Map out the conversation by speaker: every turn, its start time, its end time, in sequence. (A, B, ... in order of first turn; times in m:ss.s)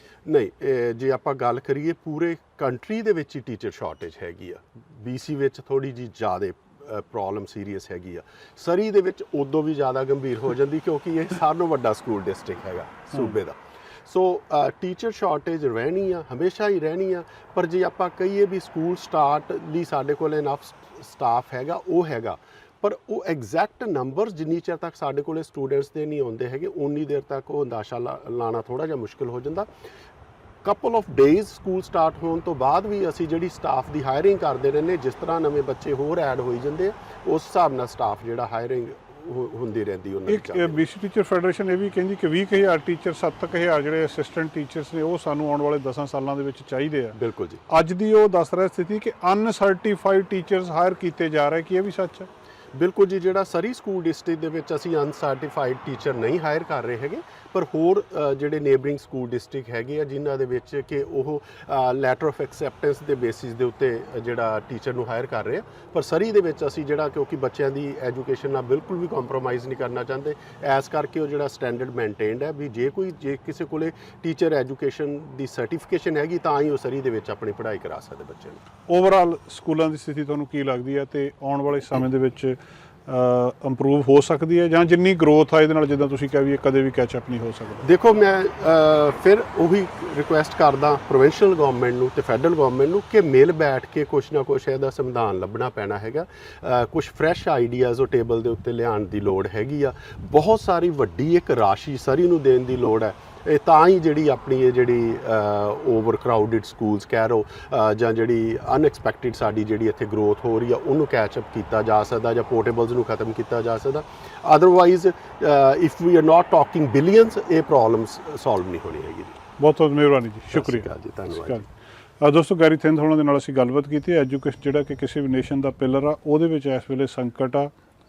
0:00.2-0:29.7 A
0:30.6-0:40.8 A
0:40.3-0:47.2 B
0:47.2-0:47.6 A
0:47.7-0:52.3 B
0:52.7-1:18.6 A
1:18.9-1:27.9 B
1:27.8-1:59.4 A
1:59.6-2:01.6 B
2:00.5-2:01.6 A
2:02.2-2:07.7 B